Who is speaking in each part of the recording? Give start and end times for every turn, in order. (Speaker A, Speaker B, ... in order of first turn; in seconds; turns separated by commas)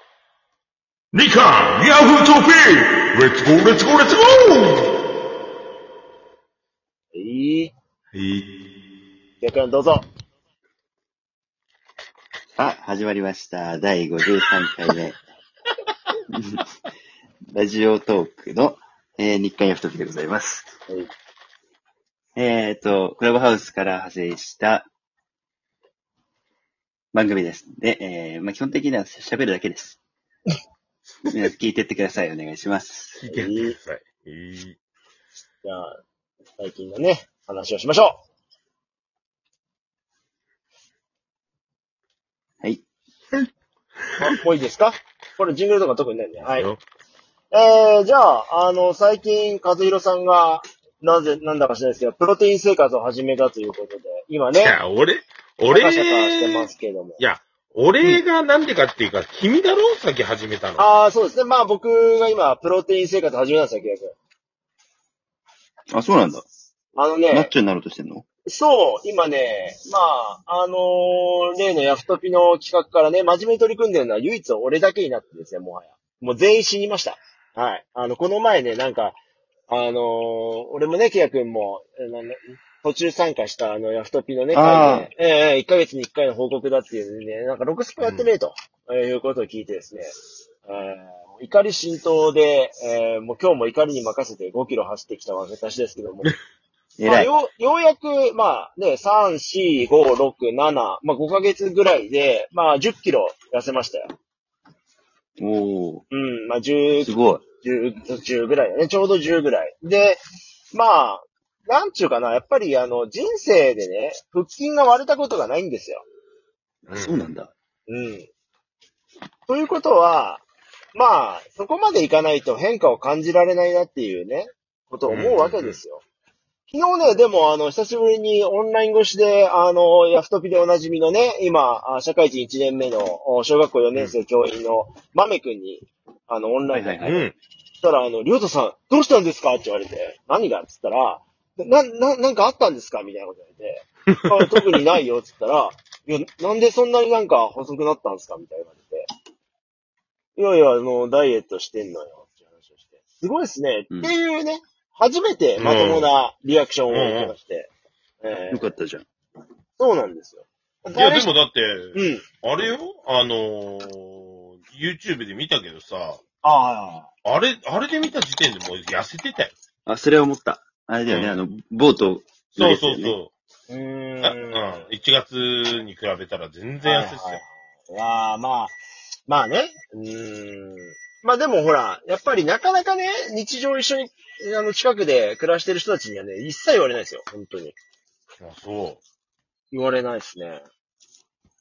Speaker A: 1.1-4.9, Speaker B: 7.1-7.7, Speaker A: 8.1-8.4, Speaker B: 9.4-10.1, Speaker C: 12.6-15.2, Speaker C: 16.3-16.6, Speaker C: 17.5-20.7, Speaker C: 22.4-24.9, Speaker C: 27.1-30.0, Speaker C: 31.3-33.2, Speaker A: 33.2-34.8, Speaker B: 33.3-33.8, Speaker B: 35.6-36.0, Speaker B: 36.6-38.2, Speaker B: 44.2-46.7, Speaker A: 46.4-46.8, Speaker B: 47.5-54.8, Speaker A: 54.6-60.8, Speaker B: 55.7-57.2, Speaker B: 60.8-64.1, Speaker C: 65.9-66.4, Speaker B: 66.9-67.5, Speaker C: 67.3-68.2, Speaker B: 68.5-79.2, Speaker B: 79.7-90.1, Speaker C: 84.5-85.1, Speaker A: 88.0-88.3, Speaker B: 90.6-96.3, Speaker C: 97.0-97.3, Speaker B: 97.0-104.1, Speaker C: 105.4-106.0, Speaker B: 106.1-116.0, Speaker C: 107.0-107.4, Speaker A: 116.9-117.2, Speaker C: 116.9-117.5, Speaker B: 117.9-118.3, Speaker B: 119.5-120.4, Speaker B: 120.9-126.0, Speaker A: 125.1-125.8, Speaker B: 126.7-137.3, Speaker C: 136.7-137.2, Speaker A: 137.0-137.3, Speaker B: 137.8-149.1, Speaker B: 150.3-157.7, Speaker A: 155.6-156.1, Speaker A: 156.9-157.3, Speaker B: 158.2-158.7, Speaker C: 158.5-159.0, Speaker B: 159.8-161.3, Speaker A: 160.9-166.2, Speaker B: 161.9-162.2, Speaker B: 166.4-167.1, Speaker A: 167.2-169.5, Speaker C: 169.8-173.2, Speaker A: 171.1-171.4, Speaker A: 172.5-173.3, Speaker B: 173.7-174.8, Speaker A: 174.2-177.4, Speaker B: 176.8-187.8, Speaker A: 188.4-189.0, Speaker B: 189.7-190.6